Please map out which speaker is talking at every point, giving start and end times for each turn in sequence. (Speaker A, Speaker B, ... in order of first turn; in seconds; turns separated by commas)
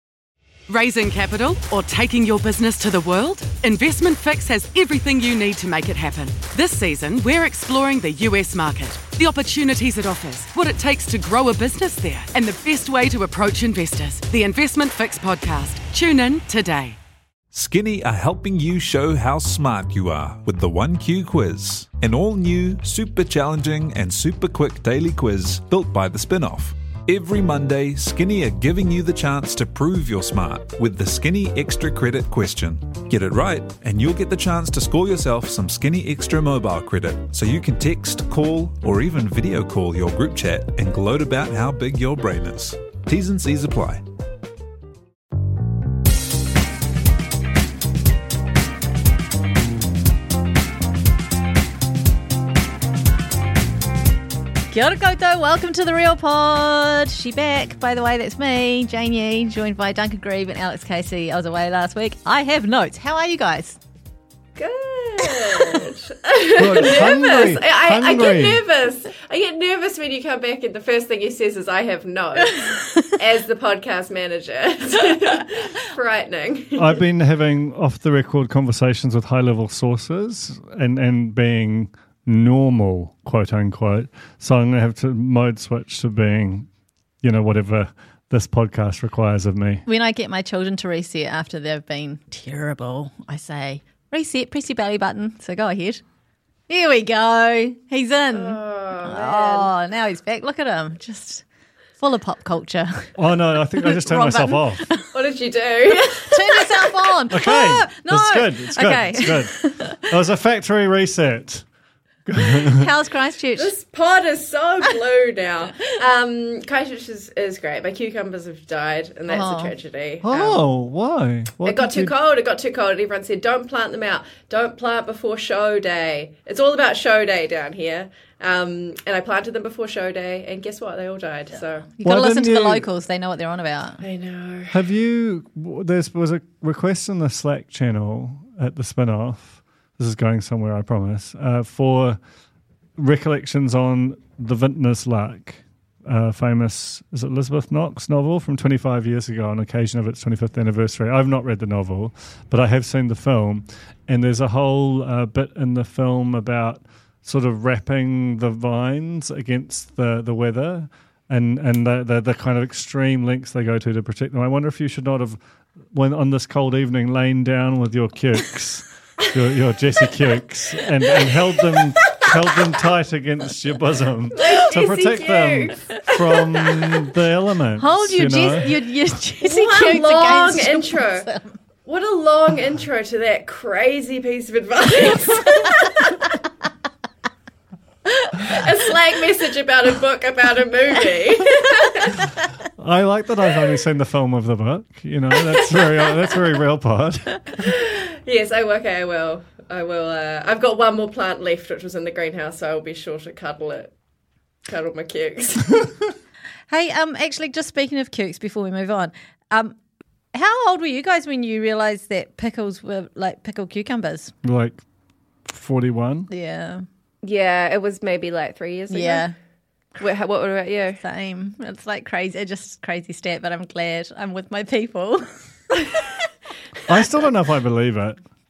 Speaker A: 0.7-17.0, Speaker B: 17.5-44.0, Speaker C: 54.7-63.8, Speaker D: 64.6-77.0, Speaker C: 65.4-65.8, Speaker E: 66.5-68.6, Speaker E: 76.8-86.7, Speaker E: 87.2-89.8, Speaker C: 89.9-96.0, Speaker C: 96.7-101.4, Speaker D: 98.3-99.7, Speaker C: 102.0-103.1, Speaker E: 103.2-104.9, Speaker C: 103.8-105.0, Speaker D: 105.1-106.7, Speaker C: 105.8-110.0, Speaker E: 107.3-111.6, Speaker E: 112.2-112.9, Speaker C: 112.5-113.7, Speaker D: 113.6-120.6, Speaker C: 119.3-119.7, Speaker E: 120.2-122.1, Speaker D: 121.6-131.9, Speaker C: 132.0-134.0, Speaker E: 132.0-132.8, Speaker D: 134.0-134.7, Speaker E: 134.7-142.2, Speaker E: 143.0-165.4, Speaker E: 165.9-178.7, Speaker D: 174.3-177.1, Speaker C: 177.8-181.5, Speaker D: 179.4-181.3, Speaker D: 181.8-186.1, Speaker D: 188.4-192.3, Speaker E: 192.8-197.7, Speaker D: 195.3-196.3, Speaker D: 197.6-203.9, Speaker D: 204.7-205.9, Speaker C: 206.7-209.7, Speaker C: 210.3-214.3, Speaker E: 214.4-214.8, Speaker E: 215.5-216.3, Speaker C: 216.3-216.8, Speaker D: 217.2-219.3, Speaker C: 218.9-219.3, Speaker D: 220.0-221.0, Speaker C: 221.0-225.3, Speaker E: 226.9-228.2